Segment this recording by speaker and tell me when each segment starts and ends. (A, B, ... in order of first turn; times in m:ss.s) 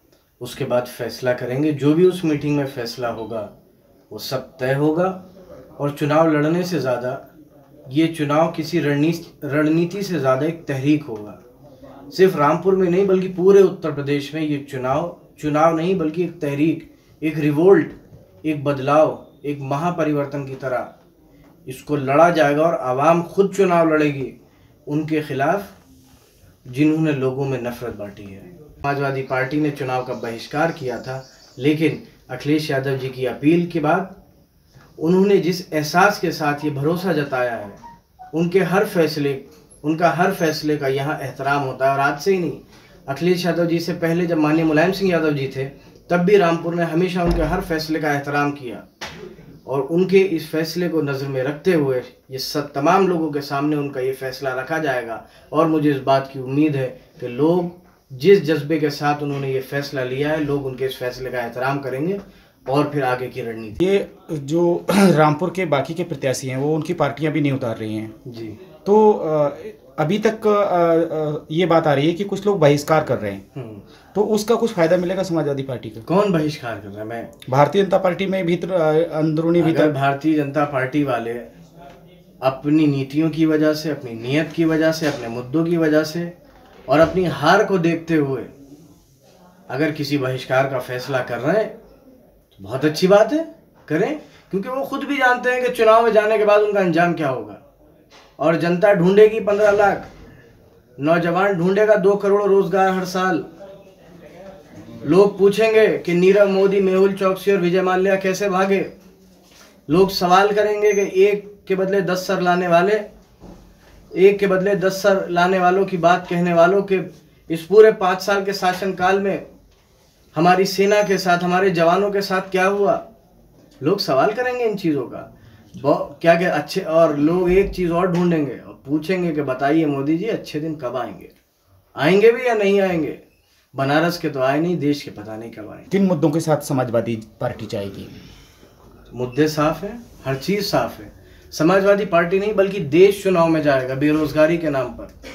0:00.4-0:03.5 A
0:04.1-0:05.2 A
0:05.8-0:07.2 A
0:07.9-0:11.4 A
0:12.1-0:20.9 A
0:21.7-0:24.4 A
0:24.9-0:25.8 A
0:26.7-0:34.2 A
0:35.0-0:37.8 A
0:38.3-0:48.9 A
0:49.7-1:03.8 A
1:03.8-1:08.1 B
1:08.2-1:08.6 A
1:08.8-1:13.4 B
1:13.5-1:13.8 A
1:14.1-1:16.0 B
1:16.1-1:17.3 A
1:17.5-1:19.9 B
1:19.6-1:21.5 A
1:22.4-1:26.3 A
1:26.9-1:28.5 A
1:29.7-1:31.7 A
1:32.5-1:37.6 A
1:38.4-1:40.1 A
1:41.0-1:43.5 A
1:45.0-1:48.9 A
1:49.9-1:53.0 A
1:54.1-1:59.4 A
2:00.3-2:03.0 A
2:03.8-2:11.4 A
2:12.0-2:13.2 A
2:13.7-2:15.9 A
2:15.9-2:18.2 B
2:19.1-2:25.1 A